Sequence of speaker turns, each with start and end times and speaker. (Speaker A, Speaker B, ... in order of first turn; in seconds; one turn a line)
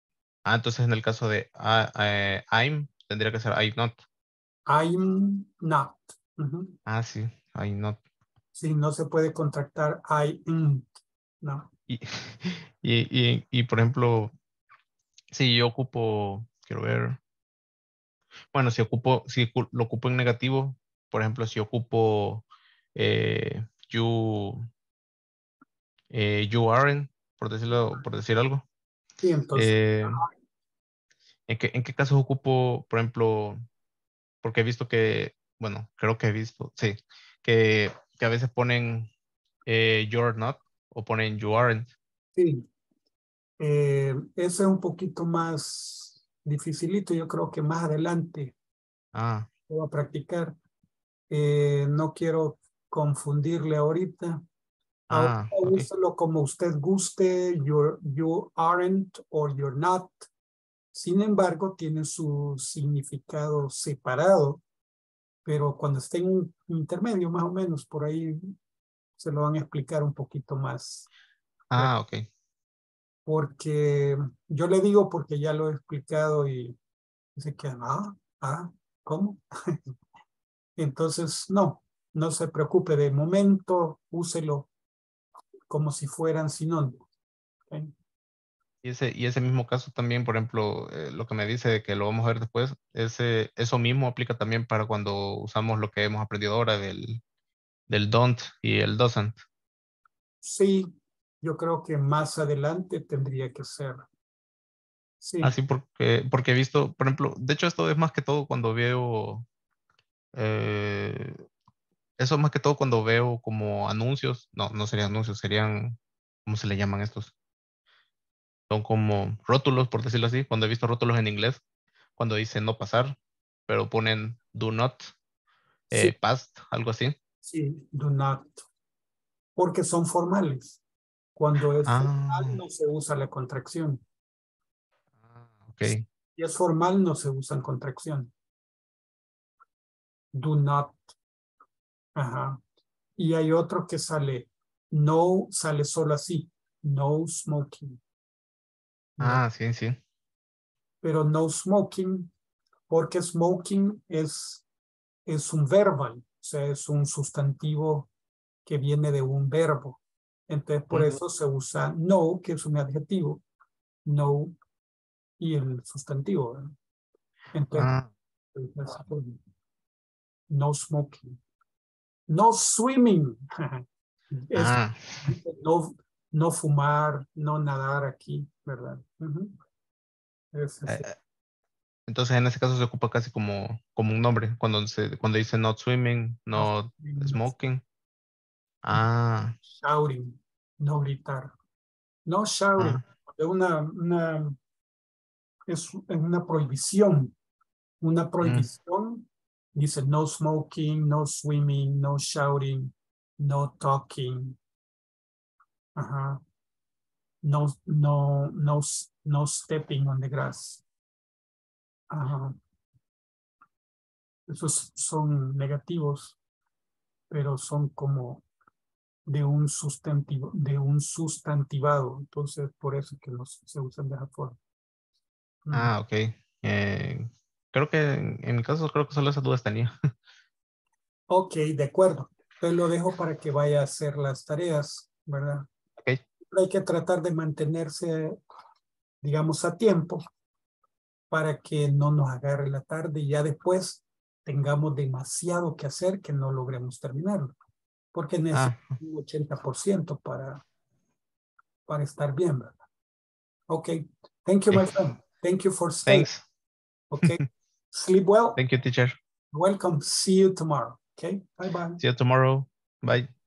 Speaker A: 0.5-4.0
Speaker B: 4.7-6.8
Speaker A: 6.9-8.0
Speaker B: 8.6-10.9
Speaker B: 11.4-11.7
Speaker A: 11.9-14.3
Speaker A: 15.3-17.2
Speaker A: 18.5-22.4
Speaker A: 23.0-24.7
Speaker A: 26.1-28.6
Speaker B: 29.2-30.3
Speaker A: 29.6-30.2
Speaker A: 31.5-33.6
Speaker A: 34.4-39.1
Speaker A: 39.7-41.9
Speaker B: 42.4-42.7
Speaker B: 43.6-48.5
Speaker A: 49.1-49.5
Speaker B: 49.7-50.5
Speaker B: 51.3-54.4
Speaker A: 55.1-55.9
Speaker B: 55.1-60.2
Speaker B: 60.9-64.6
Speaker B: 65.5-68.5
Speaker B: 69.2-71.1
Speaker A: 71.7-72.2
Speaker B: 73.3-76.8
Speaker B: 77.4-79.8
Speaker B: 80.8-84.7
Speaker B: 85.7-87.0
Speaker A: 88.8-97.2
Speaker A: 97.9-99.4
Speaker B: 100.4-104.1
Speaker B: 105.2-105.6
Speaker A: 105.4-109.5
Speaker A: 110.3-111.4
Speaker A: 112.2-117.3
Speaker A: 118.7-121.6
Speaker A: 122.2-123.2
Speaker A: 123.7-125.1
Speaker A: 125.9-127.2
Speaker B: 127.4-128.7
Speaker B: 129.6-130.8
Speaker B: 131.4-134.0
Speaker A: 131.8-132.6
Speaker A: 135.2-136.1
Speaker B: 136.4-138.3
Speaker B: 140.3-141.0
Speaker B: 142.2-142.6
Speaker B: 143.2-148.0
Speaker B: 149.2-149.4
Speaker A: 149.2-150.0
Speaker B: 151.0-152.3
Speaker B: 152.9-154.6
Speaker B: 155.3-158.1
Speaker B: 158.7-163.4
Speaker A: 160.9-161.2
Speaker B: 164.1-164.6
Speaker B: 165.4-166.8
Speaker B: 167.5-167.9
Speaker A: 167.7-168.1
Speaker B: 168.6-169.4
Speaker B: 170.5-171.4
Speaker B: 172.3-179.6
Speaker A: 174.5-175.3
Speaker B: 180.5-181.1
Speaker A: 180.9-181.1
Speaker A: 182.1-187.8
Speaker B: 186.5-187.4
Speaker A: 188.8-189.6
Speaker B: 189.7-191.5
Speaker B: 192.3-194.6
Speaker A: 192.8-193.0
Speaker B: 195.7-197.3
Speaker B: 198.0-204.6
Speaker A: 198.4-198.7
Speaker B: 206.0-206.4
Speaker B: 207.4-210.8
Speaker B: 212.1-212.6
Speaker B: 214.5-216.4
Speaker B: 217.3-218.4
Speaker B: 219.3-224.6
Speaker B: 225.7-225.9
Speaker A: 225.7-229.9
Speaker B: 231.3-235.7
Speaker B: 236.5-238.4
Speaker B: 239.2-240.2
Speaker B: 241.3-247.5
Speaker B: 248.1-250.6
Speaker A: 248.5-249.0
Speaker B: 251.9-252.8
Speaker B: 253.7-256.3
Speaker A: 256.1-256.4
Speaker B: 257.1-257.4
Speaker A: 257.2-257.5
Speaker B: 257.9-258.6
Speaker A: 258.6-259.2
Speaker B: 259.5-262.0
Speaker A: 262.0-263.3